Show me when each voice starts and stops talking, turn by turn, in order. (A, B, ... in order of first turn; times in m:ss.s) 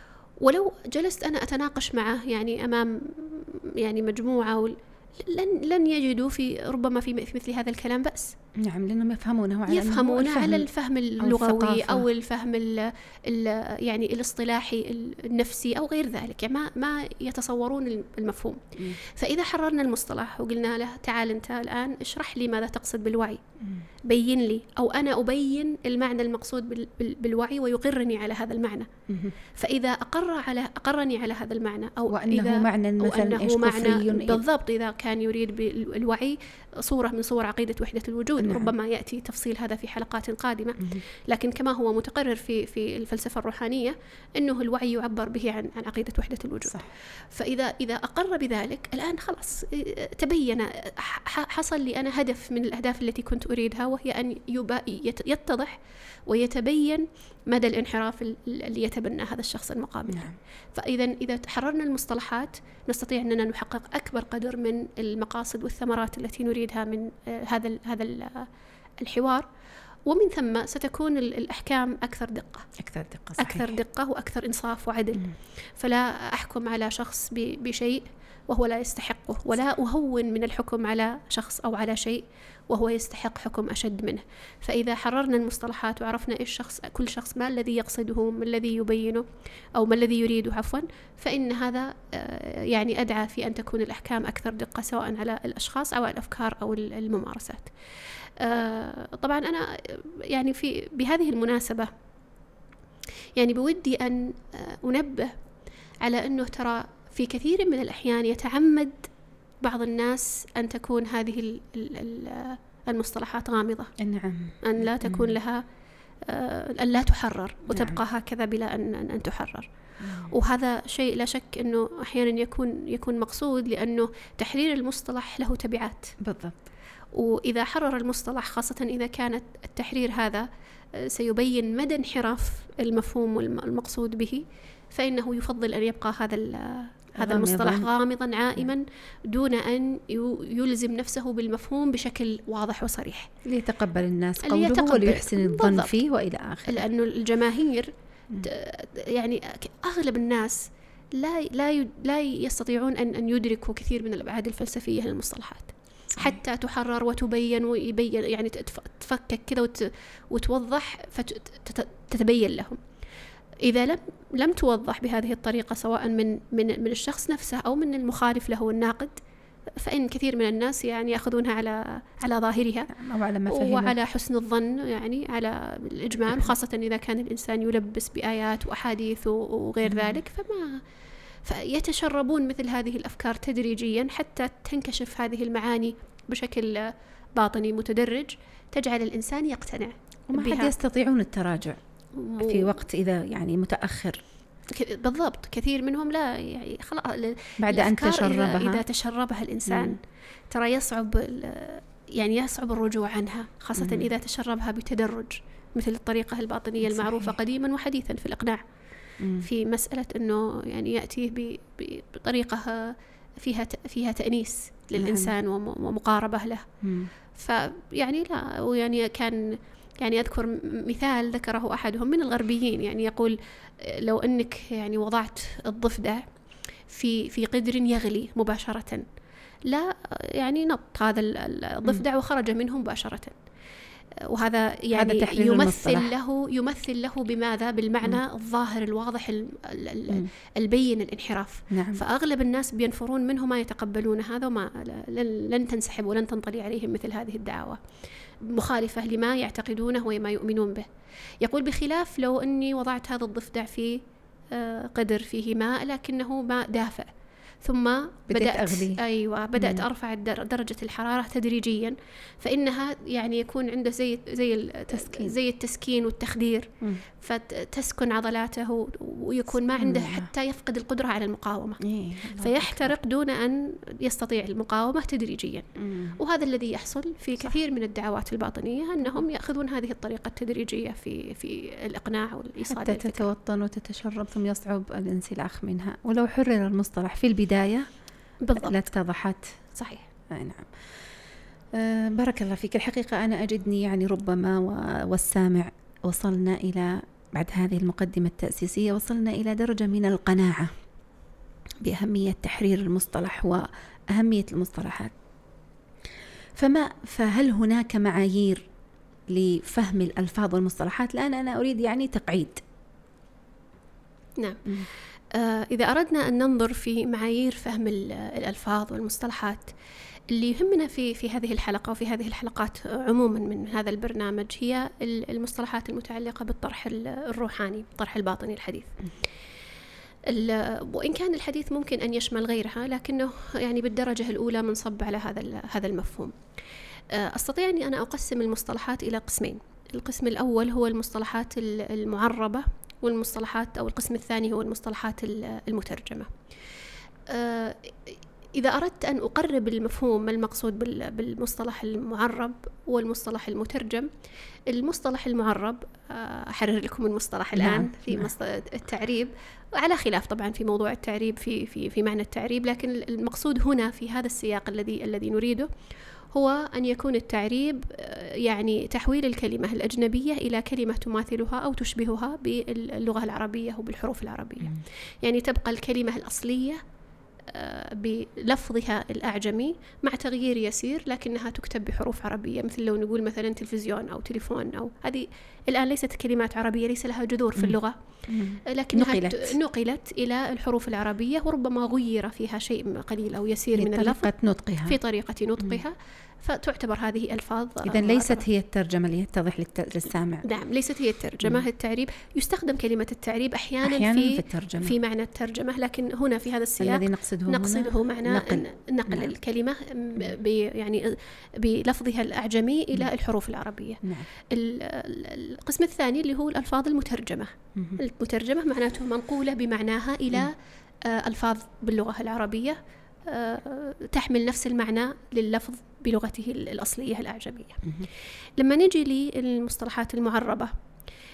0:00.4-0:08.4 A
0:08.6-0:10.7 B
0:09.7-0:23.4 A
0:11.2-0:12.0 B
0:23.6-0:23.9 B
0:24.0-0:28.9 A
0:29.1-0:29.3 B
0:29.5-1:08.5 A
0:32.1-0:34.4 B
0:38.4-0:38.7 B
1:00.1-1:00.4 B
1:09.0-1:09.5 A
1:10.1-1:12.7 A
1:12.8-1:13.7 B
1:13.4-1:37.7 A
1:38.4-1:41.9 A
1:43.4-1:45.4 A
1:46.0-1:49.1 A
1:49.6-1:53.9 A
1:54.0-1:55.4 B
1:54.6-1:55.6 A
1:56.2-1:59.7 A
1:57.7-1:58.0 B
2:00.0-2:00.3 B
2:00.3-2:06.1 A
2:06.2-2:06.6 B
2:07.1-2:23.3 A
2:17.2-2:17.9 B
2:23.4-2:26.8 B
2:24.4-2:25.9 A
2:26.7-2:42.8 A
2:43.6-2:49.2 A
2:49.8-2:52.9 A
2:52.9-2:54.0 B
2:53.5-3:00.8 A
2:59.8-3:00.2 B
3:01.4-3:10.7 A
3:10.3-3:11.8 B
3:12.1-3:12.8 A
3:12.4-3:14.2 B
3:14.7-3:28.6 A
3:17.6-3:18.8 B
3:19.7-3:20.0 B
3:23.8-3:24.1 B
3:26.8-3:27.4 B
3:29.2-3:29.5 B
3:29.4-3:36.6 A
3:35.0-3:35.3 B
3:36.8-3:37.1 B
3:37.3-3:46.2 A
3:46.9-3:49.0 A
3:49.6-3:53.4 A
3:54.2-4:07.8 A
3:54.9-3:56.1 B
4:01.7-4:02.0 B
4:08.4-4:10.8 A
4:11.4-4:14.0 A
4:14.5-4:17.1 A
4:17.6-4:43.3 A
4:18.3-4:19.0 B
4:19.6-4:19.8 B
4:24.9-4:25.4 B
4:29.8-4:30.3 B
4:31.8-4:33.0 B
4:35.8-4:36.2 B
4:42.7-4:47.8 B
4:48.4-4:48.8 A
4:48.6-4:49.5 B
4:49.7-4:50.1 A
4:50.3-4:50.7 B
4:51.8-5:00.7 B
5:01.8-5:05.1 B
5:06.6-5:08.7 B
5:09.3-5:12.6 B
5:14.4-5:14.6 A
5:15.3-5:19.7 A
5:20.3-5:29.0 A
5:30.3-5:36.3 A
5:37.1-5:46.3 A
5:47.3-5:54.1 A
5:54.7-6:05.7 A
5:57.5-5:58.3 B
6:06.3-6:16.8 A
6:17.5-6:28.0 A
6:27.6-6:29.6 B
6:28.6-6:34.3 A
6:33.7-6:35.0 B
6:34.8-6:38.4 A
6:37.8-6:40.4 B
6:40.4-7:07.8 A
6:43.8-6:45.0 B
6:46.8-6:49.3 B
6:54.0-6:54.3 B
7:08.6-7:10.7 A